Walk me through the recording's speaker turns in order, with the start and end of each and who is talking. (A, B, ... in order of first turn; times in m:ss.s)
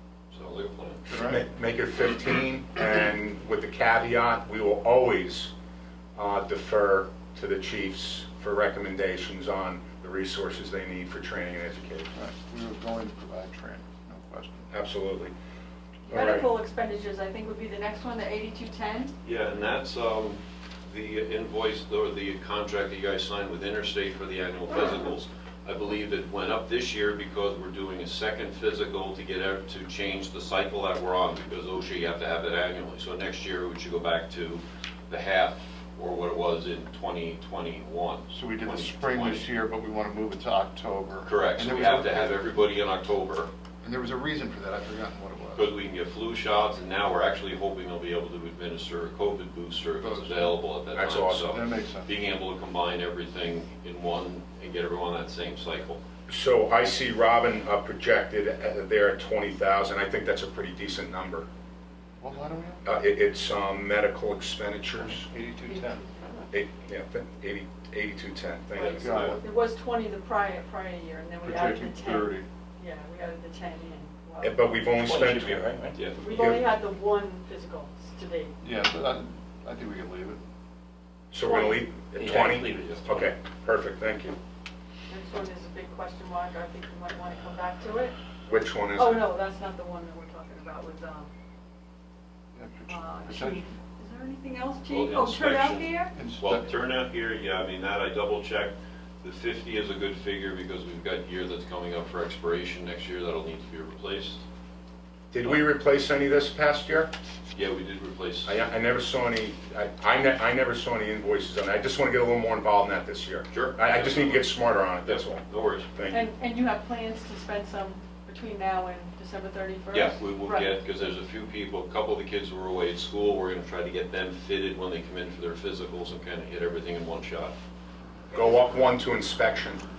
0:00.3-0:01.1 A
0:01.1-0:01.4 B
0:01.2-0:05.5 C
0:06.2-0:12.1 C
0:12.1-0:14.7 B
0:14.7-0:15.3 C
0:16.1-0:19.1 D
0:16.1-0:16.5 C
0:19.2-0:39.4 A
0:38.3-0:42.4 B
0:41.2-0:43.5 A
0:43.8-0:45.7 B
0:45.5-0:56.0 A
0:50.0-0:50.6 B
0:50.9-0:51.5 C
0:51.5-0:52.1 B
0:56.3-1:01.5 C
1:02.2-1:02.8 B
1:02.8-1:05.2 C
1:05.1-1:06.0 B
1:05.7-1:06.5 D
1:06.5-1:09.4 C
1:08.7-1:14.6 D
1:08.9-1:09.4 B
1:11.4-1:12.4 B
1:14.4-1:15.7 C
1:15.0-1:16.0 E
1:16.2-1:18.5 D
1:16.2-1:16.6 C
1:18.6-1:20.4 B
1:21.3-1:24.4 C
1:21.4-1:21.8 D
1:22.2-1:23.3 E
1:25.1-1:28.2 D
1:28.4-1:29.2 C
1:29.0-1:31.3 D
1:32.5-1:33.7 B
1:32.9-1:36.1 D
1:34.9-1:44.4 A
1:36.1-1:36.6 B
1:45.3-1:47.1 C
1:47.5-1:48.6 A
1:48.4-1:56.3 C
1:53.5-1:55.9 A
1:56.1-2:00.7 D
1:59.9-2:07.5 A
2:08.3-2:08.6 D
2:08.3-2:09.8 C